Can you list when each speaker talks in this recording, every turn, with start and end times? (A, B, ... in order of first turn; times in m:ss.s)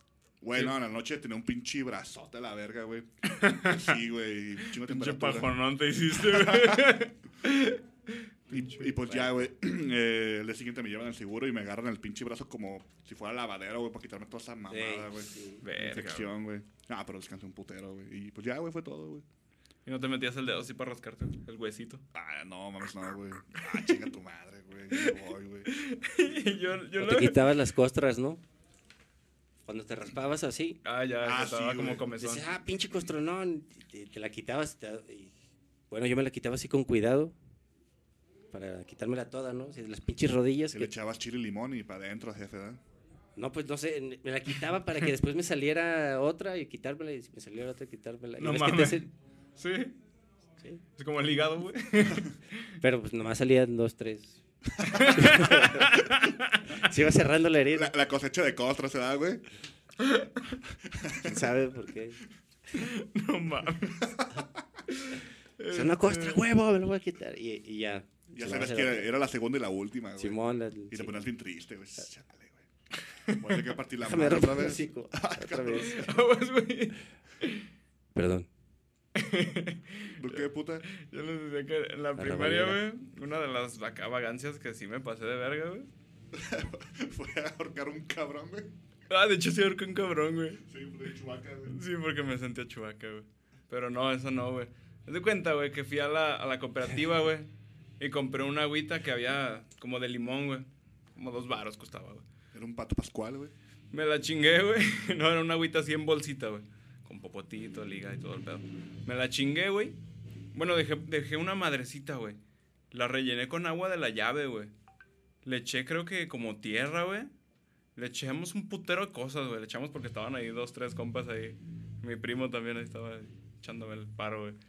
0:00.4-0:05.5 A
0:03.3-0:04.0 B
0:04.6-0:08.9 B
0:06.1-0:07.0 A
0:08.5-0:19.2 A
0:09.0-0:09.5 C
0:14.7-0:15.6 C
0:15.6-0:16.3 B
0:19.9-0:22.0 B
0:22.1-0:25.7 A
0:23.6-0:24.0 B
0:25.7-0:27.4 B
0:27.0-0:28.4 C
0:29.7-0:30.8 C
0:30.8-0:32.5 B
0:31.2-0:32.1 A
0:32.2-0:35.3 C
0:35.9-0:37.4 C
0:38.5-0:40.9 C
0:40.7-0:42.8 A
0:43.4-0:49.1 C
0:48.4-0:49.9 B
0:51.0-0:52.7 B
0:52.8-0:54.4 C
0:54.8-0:55.1 A
0:54.9-0:56.8 B
0:55.1-0:56.0 C
0:56.8-0:57.9 C
0:57.7-0:59.4 A
1:00.0-1:00.4 B
1:00.8-1:01.5 A
1:01.2-1:02.2 C
1:02.7-1:04.1 B
1:04.0-1:04.4 A
1:04.9-1:06.4 B
1:05.7-1:09.1 C
1:08.3-1:10.4 A
1:10.2-1:11.2 C
1:10.9-1:12.7 A
1:13.3-1:13.6 B
1:13.4-1:16.1 A
1:14.0-1:16.0 C
1:15.7-1:17.7 B
1:18.2-1:18.5 C
1:19.2-1:25.9 B
1:20.2-1:20.9 A
1:22.2-1:22.8 C
1:26.3-1:28.7 A
1:29.1-1:30.6 B
1:30.7-1:31.8 A
1:31.7-1:37.5 B
1:38.0-1:42.2 B
1:42.5-1:43.5 A
1:43.9-1:50.0 B
1:50.5-1:52.4 B
1:52.9-1:54.7 B
1:55.4-1:57.3 B
1:58.0-2:04.6 B